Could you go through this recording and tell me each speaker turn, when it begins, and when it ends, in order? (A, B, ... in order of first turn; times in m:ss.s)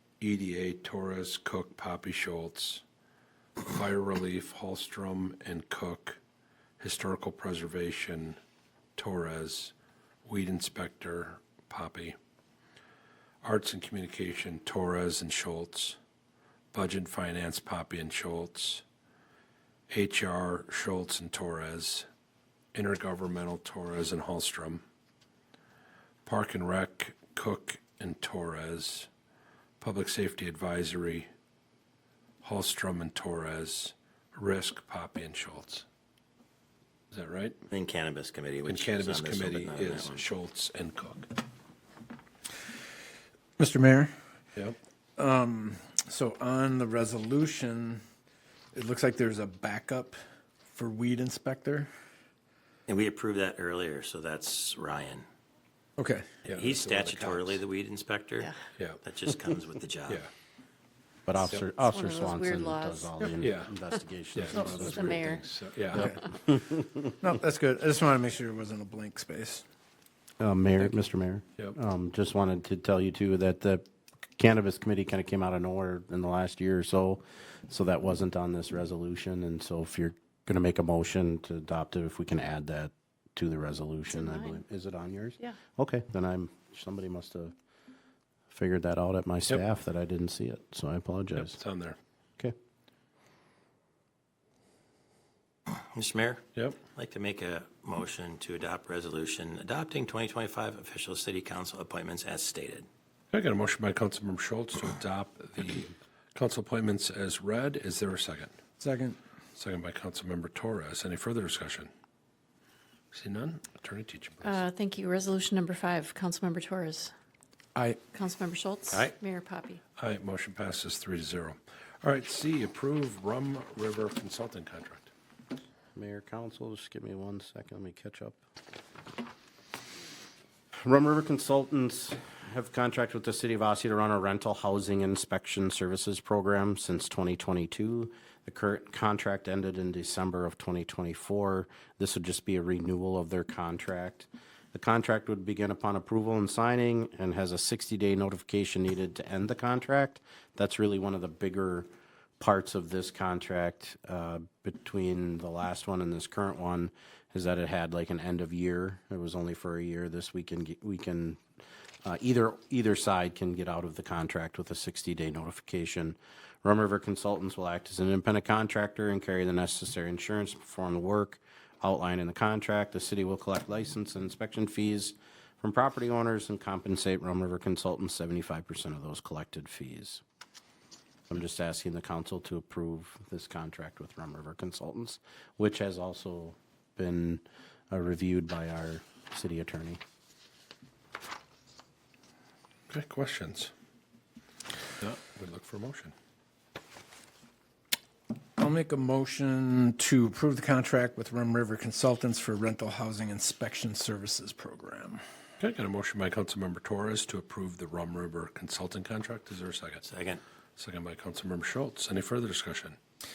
0:00.2-0:02.8 A
0:03.6-0:06.2 A
0:06.8-0:08.4 A
0:09.0-0:09.7 A
0:10.2-0:12.2 A
0:13.4-0:16.0 A
0:16.7-0:18.8 A
0:19.9-0:22.1 A
0:22.7-0:24.8 A
0:26.2-0:29.1 A
0:29.8-0:31.3 A
0:32.4-0:35.8 A
0:37.1-0:37.6 A
0:37.7-0:40.3 B
0:38.6-0:41.3 A
0:43.6-0:44.1 C
0:45.2-0:48.0 C
0:48.7-0:50.2 C
0:50.7-0:51.9 C
0:52.9-0:55.2 B
0:56.0-0:56.3 C
0:56.4-0:57.6 A
0:56.5-1:00.2 B
1:01.2-1:05.2 D
1:01.8-1:03.4 E
1:03.4-1:03.7 A
1:04.3-1:06.2 A
1:04.6-1:05.4 E
1:07.2-1:09.6 C
1:10.4-1:13.8 D
1:14.4-1:27.5 D
1:28.5-1:31.6 D
1:31.4-1:32.0 A
1:35.7-1:42.9 B
1:43.3-1:48.5 A
1:48.8-1:49.2 C
1:49.6-1:51.9 A
1:53.1-1:54.6 A
1:54.4-1:57.1 E
1:57.7-1:58.0 C
1:58.1-1:59.8 E
2:00.0-2:05.1 A
2:05.9-2:08.4 D
2:10.8-2:31.9 D
2:32.4-2:41.4 D
2:42.0-3:00.2 D
3:01.3-3:10.0 D
3:12.9-3:13.7 A
3:15.0-3:16.1 A
3:18.6-3:25.2 C
3:25.6-3:30.0 A
3:30.0-3:30.4 B
3:30.8-3:33.0 A